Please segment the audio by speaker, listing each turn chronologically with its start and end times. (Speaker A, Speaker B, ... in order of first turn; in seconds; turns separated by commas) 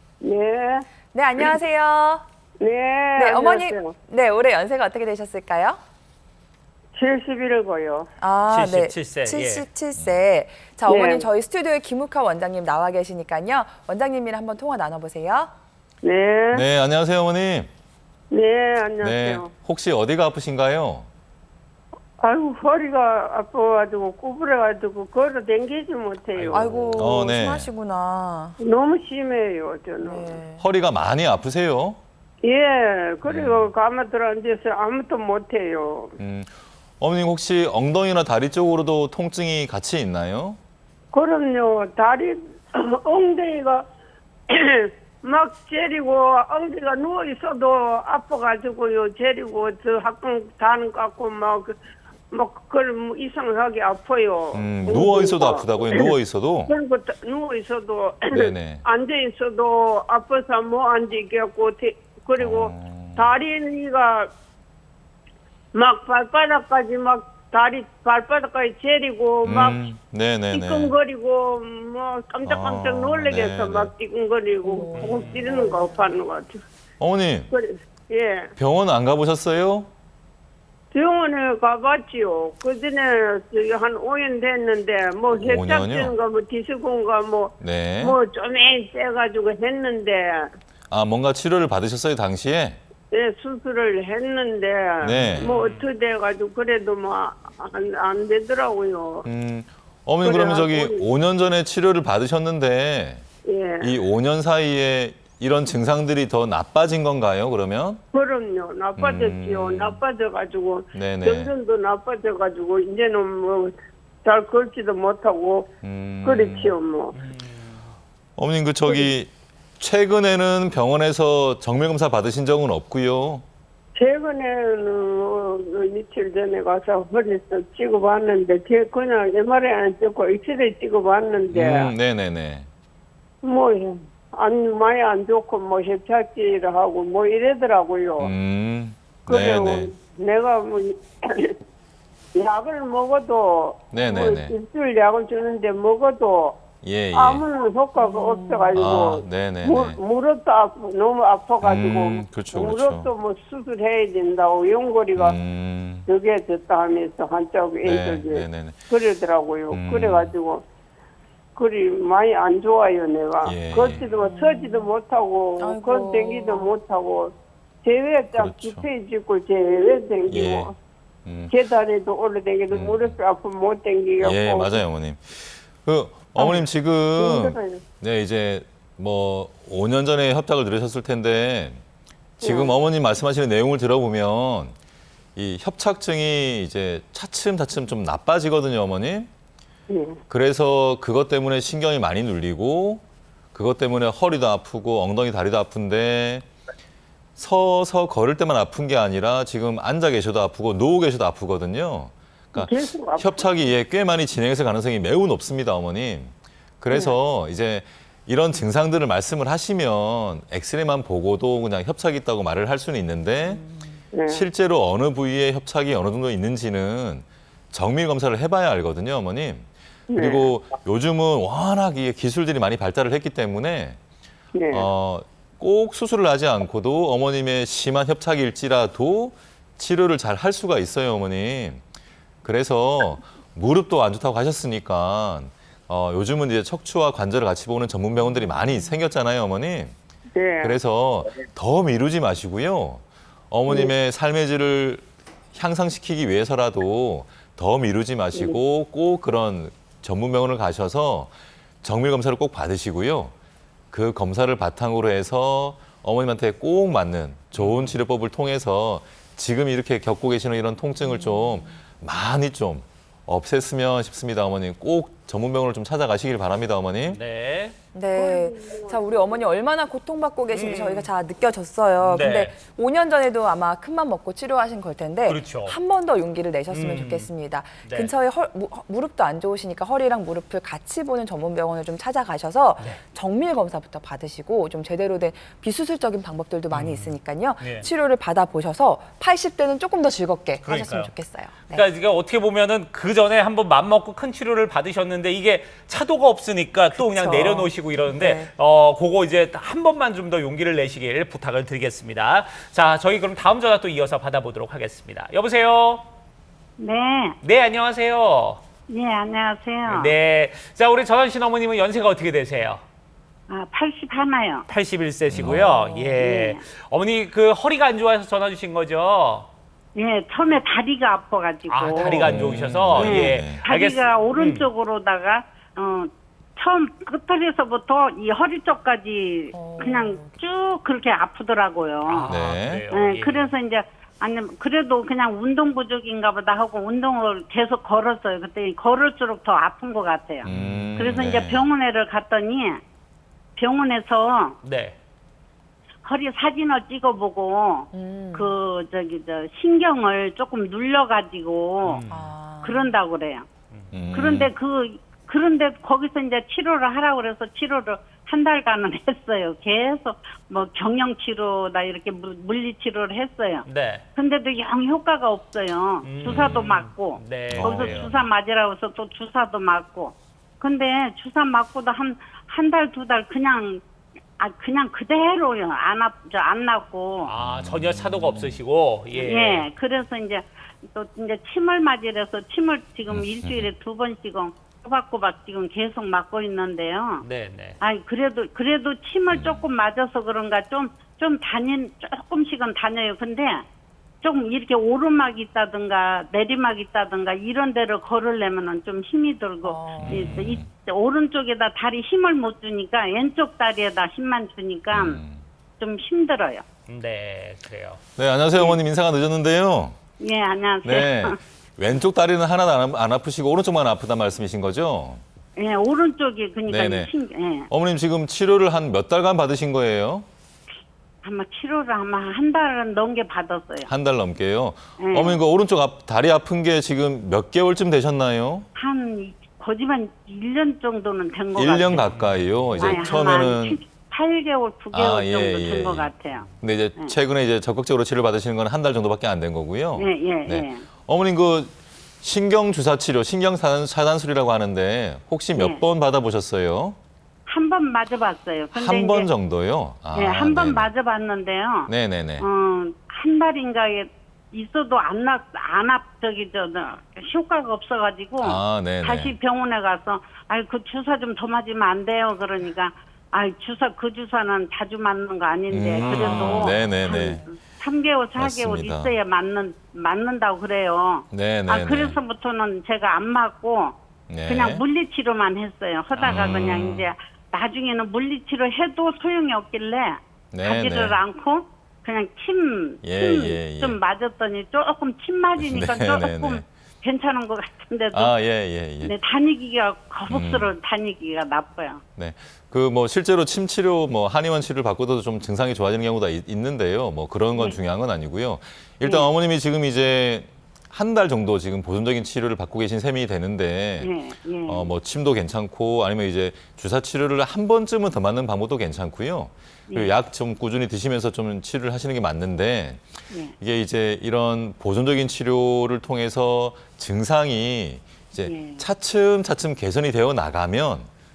Speaker A: 0.2-0.9, Speaker B: 1.1-2.2, Speaker A: 2.6-3.9, Speaker B: 3.1-5.8, Speaker A: 6.9-8.1, Speaker B: 8.2-15.5, Speaker C: 8.5-9.7, Speaker D: 9.9-10.2, Speaker A: 10.9-11.3, Speaker A: 16.0-16.6, Speaker D: 16.5-17.7, Speaker A: 18.3-19.5, Speaker D: 19.0-21.1, Speaker A: 22.2-27.1, Speaker C: 26.5-26.8, Speaker B: 26.5-28.6, Speaker D: 26.9-27.7, Speaker A: 28.6-30.4, Speaker B: 30.0-30.6, Speaker D: 30.6-32.0, Speaker A: 32.4-36.1, Speaker D: 33.2-33.7, Speaker D: 36.2-40.6, Speaker A: 41.1-43.8, Speaker A: 44.5-51.8, Speaker A: 52.3-56.1, Speaker D: 54.5-56.7, Speaker A: 56.7-64.3, Speaker D: 58.3-58.8, Speaker D: 62.4-63.3, Speaker A: 65.7-69.8, Speaker D: 69.4-70.9, Speaker A: 70.5-76.6, Speaker D: 72.5-73.9, Speaker B: 74.6-76.1, Speaker C: 74.9-75.5, Speaker D: 77.0-77.5, Speaker A: 77.5-78.5, Speaker D: 78.6-79.9, Speaker A: 80.9-90.5, Speaker D: 85.4-86.1, Speaker D: 87.6-88.2, Speaker D: 90.9-92.8, Speaker A: 93.1-99.2, Speaker D: 95.0-95.5, Speaker C: 95.2-95.8, Speaker D: 99.2-103.2, Speaker A: 100.2-101.0, Speaker A: 103.5-103.9, Speaker D: 103.8-108.0, Speaker A: 108.1-115.7, Speaker D: 109.0-110.0, Speaker D: 110.9-111.5, Speaker D: 115.8-116.7, Speaker A: 116.2-117.1, Speaker C: 117.1-117.9, Speaker D: 118.4-123.4, Speaker A: 124.0-131.9, Speaker D: 131.5-132.7, Speaker A: 133.4-138.3, Speaker D: 138.2-139.9, Speaker A: 139.2-141.6, Speaker A: 142.3-146.6, Speaker D: 143.9-144.5, Speaker D: 146.8-147.4, Speaker A: 147.1-155.4, Speaker B: 148.0-148.8, Speaker D: 148.7-150.0, Speaker D: 151.6-153.1, Speaker D: 155.2-156.1, Speaker A: 156.1-160.6, Speaker D: 157.8-158.8, Speaker D: 159.7-160.3, Speaker A: 161.6-167.3, Speaker D: 163.4-164.1, Speaker B: 164.2-164.9, Speaker B: 165.6-166.7, Speaker A: 167.8-170.7, Speaker D: 168.3-168.8, Speaker D: 170.3-170.7, Speaker D: 171.2-171.5, Speaker A: 171.5-174.8, Speaker D: 172.7-173.2, Speaker D: 174.2-181.8, Speaker A: 177.2-177.8, Speaker D: 182.4-184.7, Speaker A: 182.4-182.7, Speaker D: 185.3-189.3, Speaker A: 189.9-190.2, Speaker D: 190.3-193.0, Speaker D: 193.5-196.4, Speaker D: 197.4-213.6, Speaker A: 202.6-203.4, Speaker B: 213.4-214.0, Speaker A: 214.1-214.4, Speaker D: 214.3-224.0, Speaker A: 220.1-220.5, Speaker A: 224.5-224.9, Speaker D: 224.7-231.8, Speaker D: 232.4-239.9, Speaker A: 240.3-240.8, Speaker D: 240.6-253.3, Speaker D: 253.9-267.2, Speaker C: 257.6-258.0, Speaker B: 261.0-261.8, Speaker C: 267.1-267.8, Speaker B: 267.9-291.9, Speaker A: 268.1-269.4, Speaker C: 270.5-271.1, Speaker C: 272.0-272.5, Speaker C: 275.3-275.7, Speaker C: 276.7-277.3, Speaker C: 277.8-278.1, Speaker C: 286.7-287.9, Speaker C: 290.6-291.1, Speaker C: 291.7-306.0, Speaker B: 296.9-298.5, Speaker E: 306.8-307.4, Speaker C: 307.4-308.6, Speaker E: 308.9-310.1, Speaker C: 309.9-312.8, Speaker E: 313.5-314.6, Speaker C: 314.7-319.5, Speaker D: 315.3-315.7, Speaker E: 316.1-316.6, Speaker E: 319.9-332.3, Speaker C: 321.7-324.7, Speaker D: 322.1-323.6, Speaker B: 329.5-330.4, Speaker C: 332.1-333.5, Speaker D: 332.3-332.9, Speaker E: 332.9-342.8, Speaker D: 340.4-341.7, Speaker C: 340.5-341.3, Speaker E: 343.6-344.6, Speaker C: 344.6-344.9, Speaker E: 346.0-352.0, Speaker B: 347.9-348.6, Speaker C: 351.8-352.4, Speaker B: 352.1-353.0, Speaker E: 352.6-353.5, Speaker D: 353.9-354.5, Speaker E: 354.1-363.6, Speaker C: 363.7-364.0, Speaker E: 364.1-373.8, Speaker C: 366.0-368.1, Speaker D: 366.2-366.6, Speaker D: 367.5-368.2, Speaker E: 374.4-377.3, Speaker C: 377.2-379.7, Speaker D: 377.4-378.6, Speaker E: 379.1-387.2, Speaker D: 383.1-383.7, Speaker C: 387.2-387.8, Speaker E: 387.8-393.6, Speaker D: 389.3-389.7, Speaker E: 394.2-405.2, Speaker B: 399.6-400.3, Speaker D: 400.0-400.7, Speaker D: 404.9-405.4, Speaker E: 405.8-406.6, Speaker C: 406.9-408.0, Speaker D: 408.2-410.0, Speaker E: 410.2-411.4, Speaker D: 410.8-415.2, Speaker E: 415.6-417.7, Speaker D: 416.7-417.1, Speaker D: 417.7-420.3, Speaker E: 421.2-423.9, Speaker D: 423.9-428.7, Speaker E: 425.0-425.4, Speaker E: 428.8-432.1, Speaker D: 431.5-433.8, Speaker C: 431.9-433.3, Speaker E: 432.7-436.4, Speaker D: 434.9-447.0, Speaker E: 439.9-440.8, Speaker E: 445.5-445.8, Speaker E: 447.5-449.3, Speaker D: 448.7-450.9, Speaker E: 450.1-488.4, Speaker D: 451.9-452.4, Speaker D: 458.4-459.3, Speaker D: 465.7-467.4, Speaker B: 466.1-467.5, Speaker C: 466.2-466.6, Speaker D: 468.4-469.1, Speaker D: 471.3-472.2, Speaker D: 474.3-474.8, Speaker C: 476.1-476.5, Speaker D: 476.2-477.1, Speaker D: 480.5-481.2, Speaker D: 483.0-484.0, Speaker D: 485.6-486.6, Speaker D: 488.1-489.1, Speaker E: 489.0-492.0, Speaker D: 490.3-490.7, Speaker D: 492.1-504.1, Speaker E: 499.0-499.3, Speaker E: 504.0-504.9, Speaker D: 504.7-521.1, Speaker E: 518.4-518.8